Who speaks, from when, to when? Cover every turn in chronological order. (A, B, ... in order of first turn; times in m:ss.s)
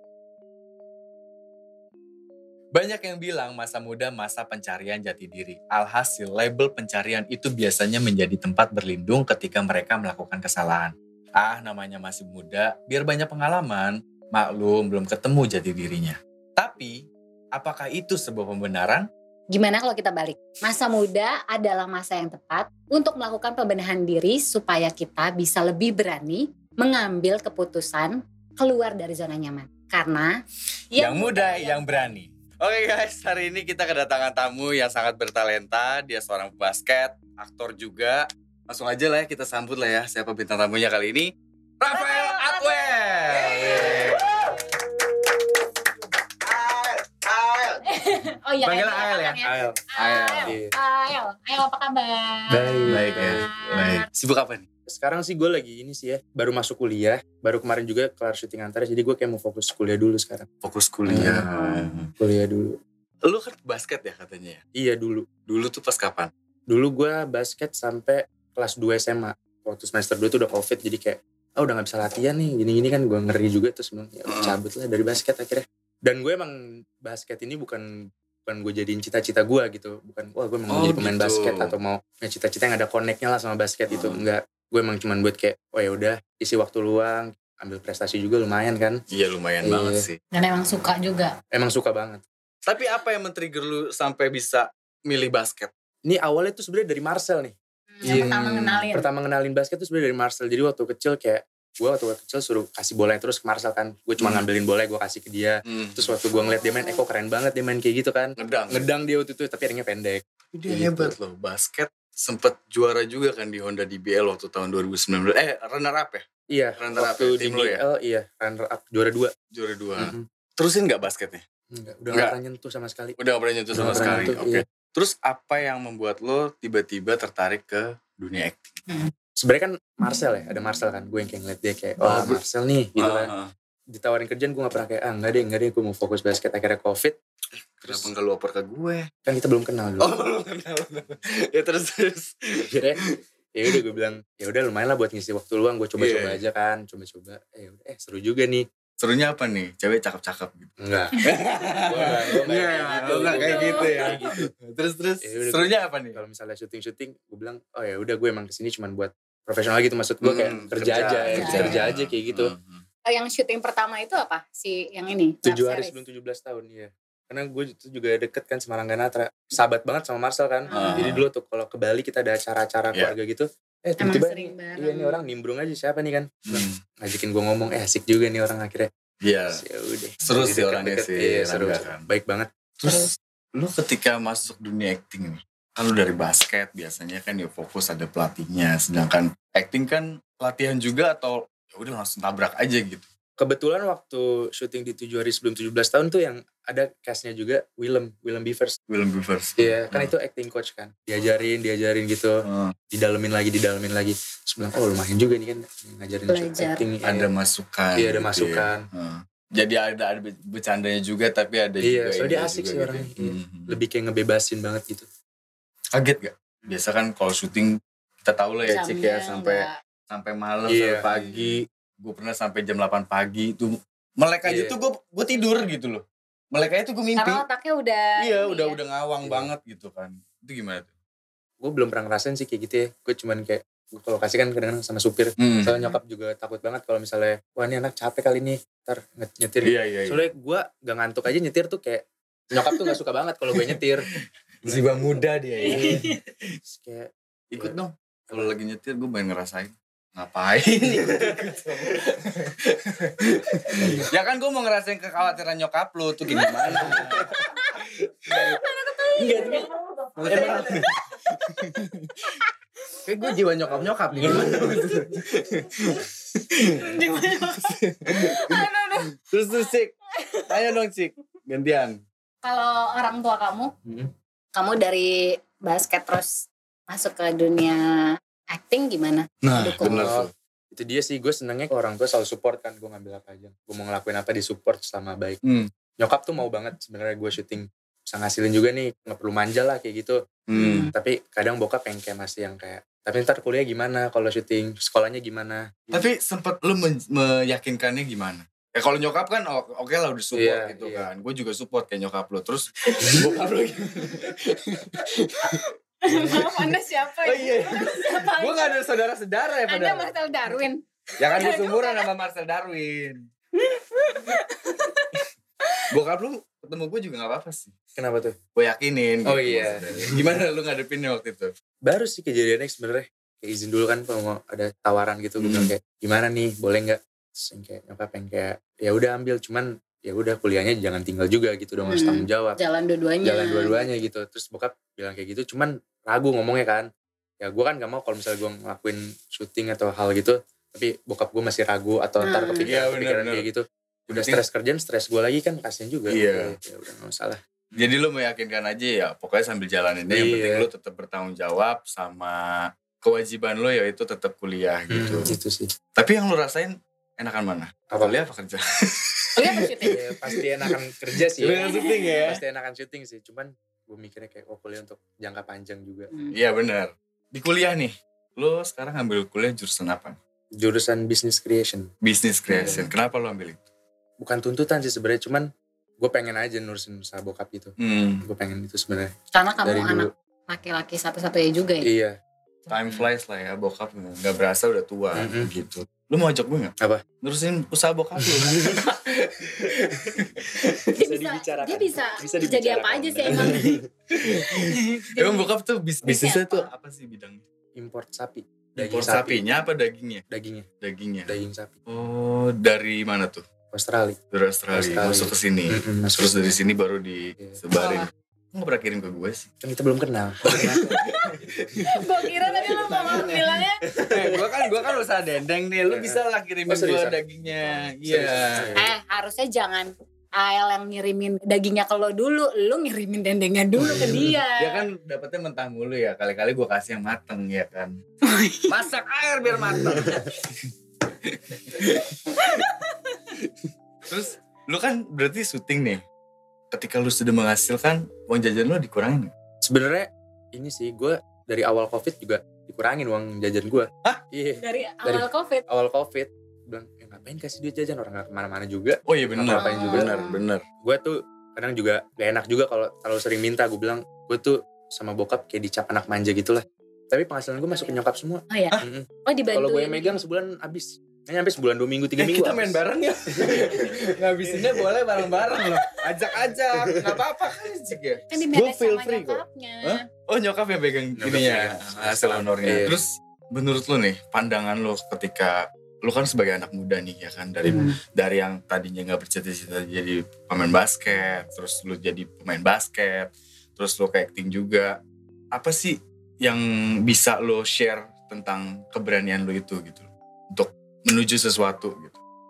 0:02.7-0:17.0 A
0:17.6-0:19.1 A
0:19.5-0:30.3 B
0:30.9-0:32.0 B
0:31.0-0:41.3 A
0:41.8-0:44.5 A
0:41.9-0:44.0 B
0:43.6-0:44.1 C
0:46.4-0:47.9 A
0:47.9-0:54.0 B
0:48.6-0:50.5 A
0:49.4-0:49.8 C
0:50.4-0:50.7 C
0:52.5-0:53.5 C
0:52.9-0:54.6 A
0:54.9-1:00.5 C
1:00.6-1:02.1 A
1:01.0-1:01.4 C
1:01.4-1:01.9 B
1:02.2-1:02.8 C
1:03.2-1:04.6 A
1:04.8-1:05.3 C
1:05.5-1:06.3 A
1:06.7-1:17.8 C
1:14.3-1:14.6 A
1:18.4-1:29.0 C
1:20.7-1:21.7 A
1:23.9-1:24.2 A
1:29.1-1:30.2 A
1:29.6-1:30.0 C
1:30.3-1:31.3 B
1:31.5-1:32.2 C
1:32.6-1:35.7 A
1:36.0-1:37.5 C
1:37.9-1:39.1 B
1:38.0-1:51.2 C
1:38.1-1:38.6 A
1:44.2-1:44.4 A
1:45.7-1:46.1 A
1:46.4-1:46.9 B
1:48.4-1:48.9 A
1:50.5-1:56.2 A
1:56.5-1:59.3 C
1:56.8-1:57.8 A
1:59.5-2:01.4 A
2:00.0-2:00.2 C
2:01.7-2:03.2 C
2:03.2-2:08.8 A
2:03.7-2:04.6 C
2:09.4-2:13.3 C
2:12.0-2:12.4 A
2:13.0-2:13.5 A
2:13.9-2:17.2 C
2:17.8-2:19.1 A
2:17.8-2:18.1 C
2:19.2-2:20.2 C
2:20.0-2:23.2 A
2:22.7-2:23.0 C
2:23.6-2:28.6 C
2:26.0-2:26.4 A
2:29.0-2:30.7 A
2:30.8-2:31.2 C
2:31.2-2:36.2 A
2:31.8-2:34.5 C
2:32.7-2:34.2 B
2:35.2-2:42.5 C
2:40.2-2:42.8 A
2:41.3-2:41.9 B
2:43.1-2:46.0 B
2:45.4-2:58.9 C
2:50.7-2:51.1 B
2:50.7-2:51.2 A
2:54.0-2:55.2 B
2:56.5-2:56.8 A
2:59.2-2:59.6 A
2:59.5-3:03.1 C
3:00.2-3:02.1 A
3:02.8-3:13.1 A
3:13.4-3:18.8 C
3:18.9-3:20.1 A
3:19.6-3:22.3 C
3:22.4-3:22.7 A
3:22.9-3:27.3 C
3:26.3-3:26.8 B
3:27.0-3:33.8 A
3:28.0-3:28.8 C
3:31.8-3:35.1 C
3:35.9-3:37.7 A
3:38.2-3:47.4 A
3:38.6-3:39.7 B
3:40.6-3:41.0 C
3:44.4-3:44.8 C
3:45.3-3:45.7 B
3:47.2-3:48.8 B
3:48.2-3:50.9 A
3:49.2-3:49.5 C
3:51.6-4:04.1 C
3:55.4-3:55.7 A
3:59.6-4:00.2 A
4:03.5-4:03.8 A
4:04.6-4:06.2 A
4:04.6-4:05.1 C
4:05.6-4:06.1 B
4:05.6-4:06.0 C
4:06.6-4:07.8 C
4:07.5-4:17.3 A
4:08.3-4:08.5 C
4:13.8-4:14.1 C
4:16.3-4:16.8 B
4:16.8-4:17.3 C
4:18.3-4:19.7 B
4:19.2-4:19.6 C
4:20.2-4:20.9 A
4:20.2-4:21.7 B
4:20.3-4:20.8 C
4:21.6-4:22.2 A
4:23.1-4:27.0 A
4:23.7-4:24.5 C
4:24.2-4:25.2 B
4:26.8-4:30.8 B
4:27.6-4:28.6 A
4:29.2-4:29.9 A
4:30.5-4:32.0 A
4:32.4-4:33.7 B
4:34.5-4:36.3 B
4:36.9-4:37.8 B
4:38.5-4:40.1 B
4:39.4-4:40.3 A
4:39.9-4:45.4 C
4:46.0-4:50.2 C
4:50.5-4:50.9 A
4:50.5-4:50.9 B
4:50.9-4:56.1 C
4:55.9-5:05.6 A
5:00.3-5:01.1 C
5:06.0-5:08.9 B
5:06.2-5:10.1 A
5:09.7-5:12.1 B
5:11.2-5:13.2 A
5:13.6-5:15.2 B
5:15.9-5:17.7 A
5:18.0-5:18.4 C
5:18.5-5:21.5 A
5:19.2-5:20.3 C
5:21.8-5:32.6 C
5:25.4-5:25.7 A
5:31.8-5:33.9 B
5:33.2-5:36.8 C
5:37.4-5:47.9 C
5:42.2-5:42.7 B
5:42.6-5:43.5 A
5:44.1-5:44.4 A
5:46.1-5:46.6 A
5:47.8-5:55.3 A
5:50.1-5:50.7 C
5:54.9-5:55.7 C
5:56.0-6:00.7 A
5:57.9-5:58.2 C
5:59.4-6:00.0 B
5:59.9-6:01.6 C
6:01.4-6:02.4 A
6:01.5-6:02.2 B
6:02.2-6:06.1 C
6:06.3-6:10.2 A
6:10.6-6:11.9 C
6:12.0-6:13.6 A
6:12.5-6:12.9 C
6:14.2-6:19.1 C
6:17.8-6:18.2 A
6:19.3-6:21.8 B
6:19.6-6:20.1 C
6:21.8-6:22.1 C
6:22.7-6:30.8 A
6:25.1-6:25.5 C
6:28.2-6:28.8 C
6:31.0-6:33.8 B
6:31.0-6:33.8 C
6:33.3-6:37.4 A
6:34.4-6:35.5 B
6:36.0-6:36.7 B
6:37.8-6:39.5 C
6:38.8-6:40.2 A
6:40.3-6:40.6 C
6:40.8-6:41.3 A
6:41.2-6:41.7 C
6:41.9-6:43.4 A
6:43.7-6:44.2 C
6:44.3-6:49.5 A
6:44.7-6:46.5 C
6:47.8-6:48.1 B
6:49.6-6:50.9 C
6:50.6-6:52.0 A
6:51.9-6:53.8 B
6:52.5-6:54.4 C
6:52.8-6:53.3 A
6:54.1-6:58.8 A
6:55.8-6:58.9 C
6:58.8-7:04.8 B
7:03.8-7:04.3 C
7:03.9-7:08.0 A
7:08.2-7:08.7 B
7:08.7-7:10.6 A
7:11.1-7:12.7 A
7:12.4-7:13.0 B
7:14.1-7:16.0 A
7:16.7-7:19.3 A
7:19.6-7:30.1 C
7:24.6-7:25.6 B
7:29.1-7:30.6 A
7:29.5-7:30.4 B
7:30.8-7:42.8 C
7:37.6-7:38.0 B
7:38.5-7:40.2 B
7:42.2-8:05.0 A
7:43.4-7:43.8 C
7:46.8-7:47.2 C
7:48.3-7:50.0 B
7:51.2-7:53.0 C
7:57.6-7:58.0 B
8:05.5-8:12.2 A